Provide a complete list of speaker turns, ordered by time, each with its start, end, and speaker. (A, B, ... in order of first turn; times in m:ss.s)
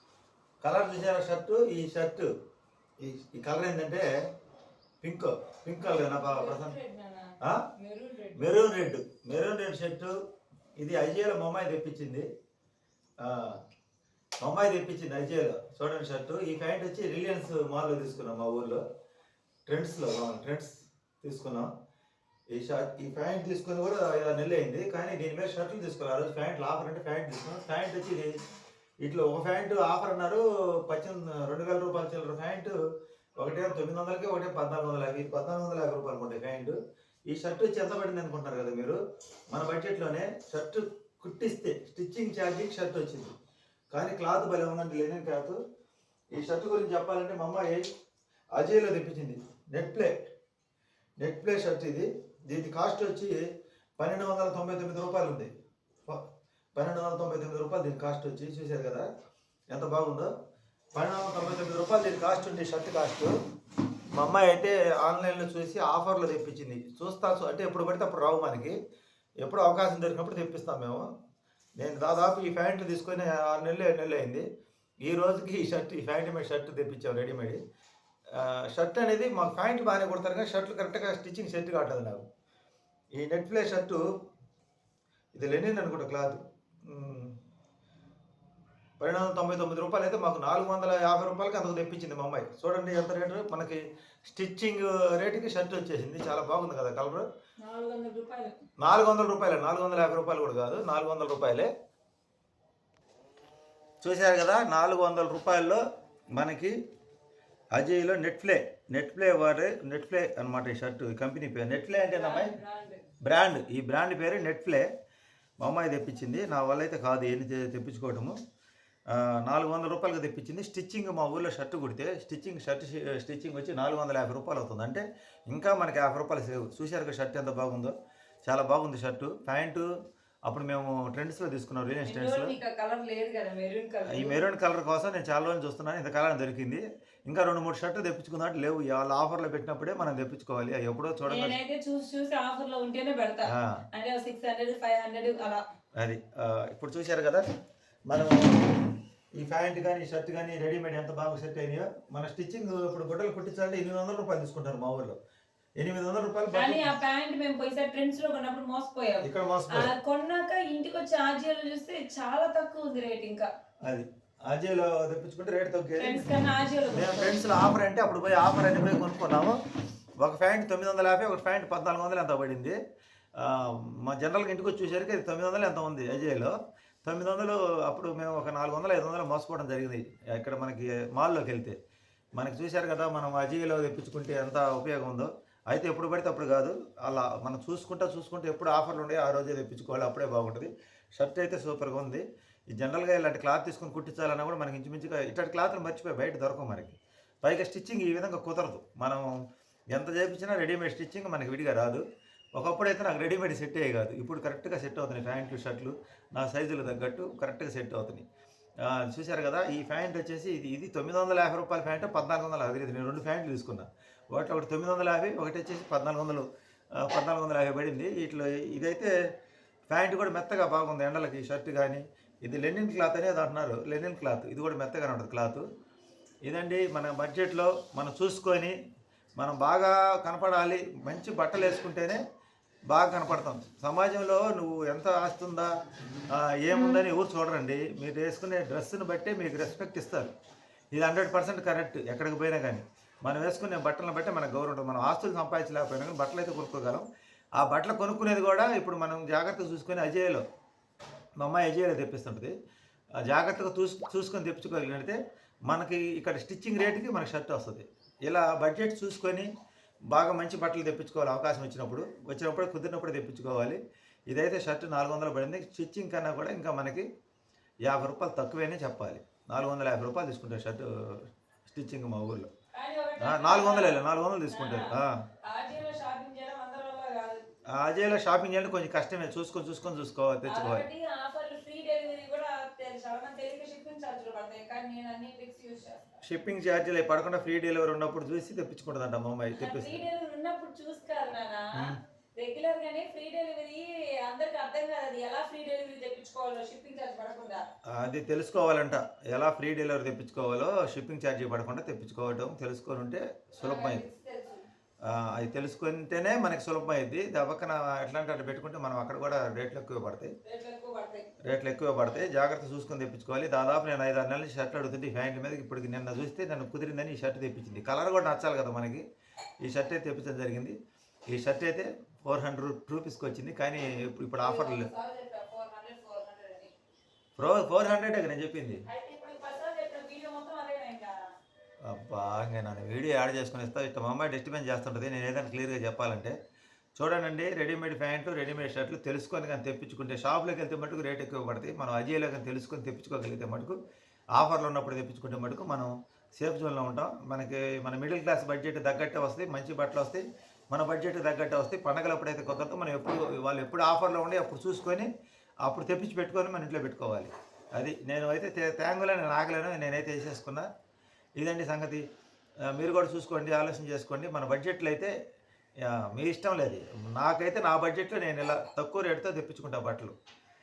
0:00.6-0:02.3 A
0:03.0-0:04.0 A
0:05.0-0:06.7 A
0:05.9-0:08.5 B
0:08.4-0:10.1 A
0:10.8-0:12.3 A
0:13.2-0:13.6 A
0:14.4-0:18.8 A
0:19.7-0:21.7 A
0:22.5-0:28.3 A
0:29.0-0:32.7 A
0:33.4-0:36.8 A
0:37.3-0:39.0 A
0:39.5-0:43.3 A
0:43.9-0:45.6 A
0:46.3-0:47.8 A
0:48.5-0:50.1 A
0:51.2-0:53.4 A
0:54.0-0:55.5 A
0:56.1-0:59.1 A
0:59.7-1:00.3 A
1:00.9-1:03.3 A
1:04.1-1:08.8 A
1:09.4-1:11.1 A
1:11.8-1:14.4 A
1:15.0-1:17.6 A
1:18.3-1:22.2 A
1:23.1-1:24.0 A
1:25.3-1:27.4 A
1:29.0-1:37.2 A
1:37.6-1:38.5 B
1:38.8-1:41.7 A
1:44.0-1:45.8 A
1:46.3-1:46.7 A
1:47.7-1:52.5 A
1:52.1-1:53.0 B
1:53.2-1:54.8 A
1:55.6-1:58.4 A
1:59.1-2:07.9 A
2:08.4-2:09.9 A
2:10.5-2:12.5 A
2:12.0-2:14.4 B
2:14.1-2:21.6 A
2:21.3-2:25.6 B
2:23.5-2:23.8 A
2:26.0-2:27.4 A
2:28.1-2:35.2 A
2:35.8-2:36.9 A
2:36.5-2:43.5 B
2:39.2-2:39.9 A
2:43.8-2:46.3 A
2:46.0-2:47.4 B
2:46.9-2:49.6 A
2:50.2-2:52.8 A
2:53.4-2:56.5 A
2:57.0-3:01.8 A
3:02.4-3:19.3 A
3:19.9-3:22.0 A
3:22.6-3:28.2 A
3:28.8-3:36.4 A
3:37.0-3:39.1 A
3:39.9-3:45.6 A
3:46.4-3:48.7 A
3:49.4-3:52.2 A
3:52.9-3:55.7 A
3:56.3-4:00.3 A
3:56.7-3:57.0 B
4:00.9-4:07.0 A
4:07.6-4:10.4 A
4:11.4-4:12.5 A
4:13.2-4:15.2 A
4:15.7-4:19.5 A
4:20.1-4:23.8 A
4:24.3-4:27.0 A
4:27.8-4:32.5 A
4:32.7-4:37.4 B
4:33.2-4:35.1 A
4:37.7-4:40.8 A
4:40.5-4:46.2 B
4:46.2-4:50.0 A
4:49.5-4:57.7 B
4:57.9-5:04.0 A
5:03.6-5:04.6 B
5:05.1-5:10.3 A
5:10.4-5:11.3 B
5:11.4-5:19.0 A
5:19.6-5:20.7 A
5:21.3-5:24.9 A
5:24.4-5:26.7 B
5:27.4-5:28.8 A
5:28.8-5:31.2 B
5:31.8-5:36.4 A
5:37.0-5:43.8 A
5:44.4-5:55.1 A
5:55.6-6:00.7 A
6:01.4-6:02.0 A
6:02.7-6:05.1 A
6:05.8-6:10.1 A